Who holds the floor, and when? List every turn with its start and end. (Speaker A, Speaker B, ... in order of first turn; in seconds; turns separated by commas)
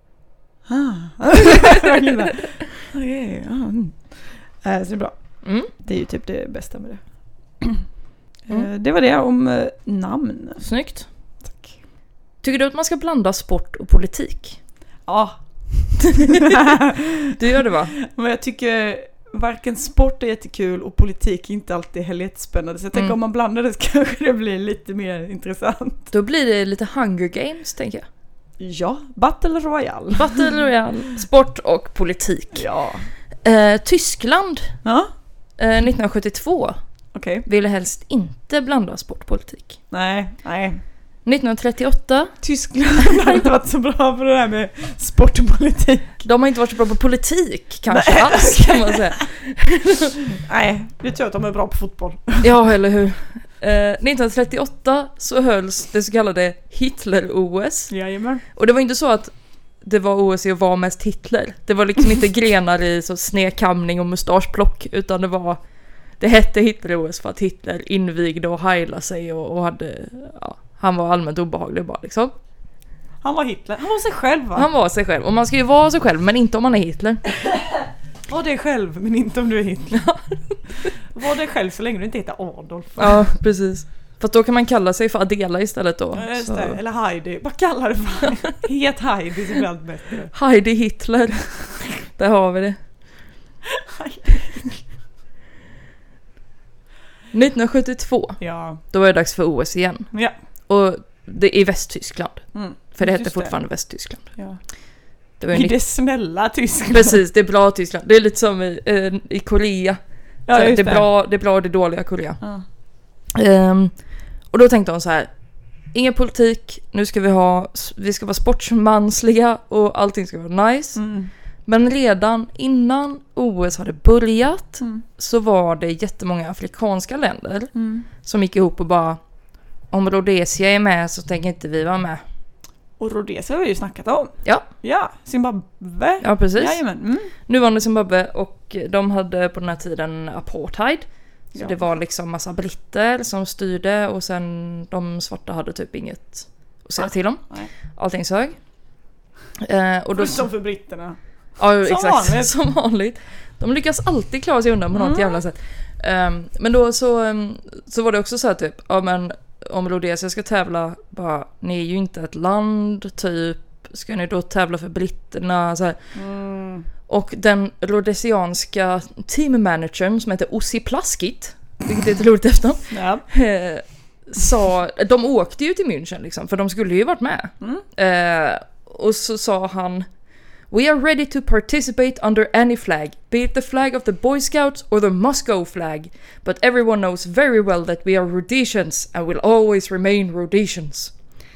Speaker A: 0.7-7.0, Speaker B: 5.4-5.7, Speaker A: 8.5-10.6, Speaker B: 10.6-11.1, Speaker A: 11.4-11.8, Speaker B: 12.4-14.6, Speaker A: 15.1-17.1, Speaker B: 16.3-16.6, Speaker B: 17.4-17.9, Speaker A: 17.6-26.1, Speaker B: 26.1-28.1, Speaker A: 28.6-30.6, Speaker B: 30.2-32.7, Speaker A: 32.5-33.1, Speaker B: 33.4-34.8, Speaker A: 34.8-35.1, Speaker B: 35.6-36.8, Speaker A: 37.1-37.5, Speaker B: 37.5-39.8, Speaker A: 39.9-40.8, Speaker B: 41.2-42.4, Speaker A: 42.4-46.3, Speaker B: 43.1-43.4, Speaker B: 46.2-50.2, Speaker A: 47.9-49.3, Speaker A: 50.4-52.5, Speaker B: 52.4-57.9, Speaker A: 57.9-58.4, Speaker B: 58.5-65.6, Speaker B: 66.2-72.3, Speaker A: 73.2-74.7, Speaker B: 74.5-77.2, Speaker A: 78.3-80.0, Speaker B: 79.9-80.6, Speaker A: 81.1-83.3, Speaker B: 83.0-86.8, Speaker A: 86.2-90.3, Speaker B: 90.3-92.8, Speaker A: 93.8-94.8, Speaker B: 97.3-100.1, Speaker A: 98.4-98.8, Speaker B: 100.7-104.3, Speaker A: 102.5-103.6, Speaker A: 104.3-104.6, Speaker B: 105.4-105.8, Speaker A: 105.5-107.2, Speaker B: 106.9-110.0, Speaker A: 110.5-111.1, Speaker B: 110.5-112.4, Speaker B: 113.3-115.3, Speaker B: 115.9-121.0, Speaker A: 121.0-121.3, Speaker B: 121.7-129.2, Speaker A: 124.8-125.0, Speaker A: 127.7-128.1, Speaker B: 129.9-132.2, Speaker A: 133.0-137.3, Speaker B: 136.2-136.8, Speaker B: 137.4-148.6, Speaker A: 141.5-141.8, Speaker A: 147.0-147.7, Speaker B: 149.6-150.4, Speaker A: 150.2-151.2, Speaker B: 151.6-166.0, Speaker A: 151.8-152.5, Speaker A: 154.9-155.4, Speaker A: 166.2-166.9, Speaker B: 167.1-180.1, Speaker A: 172.9-173.2, Speaker B: 180.7-191.1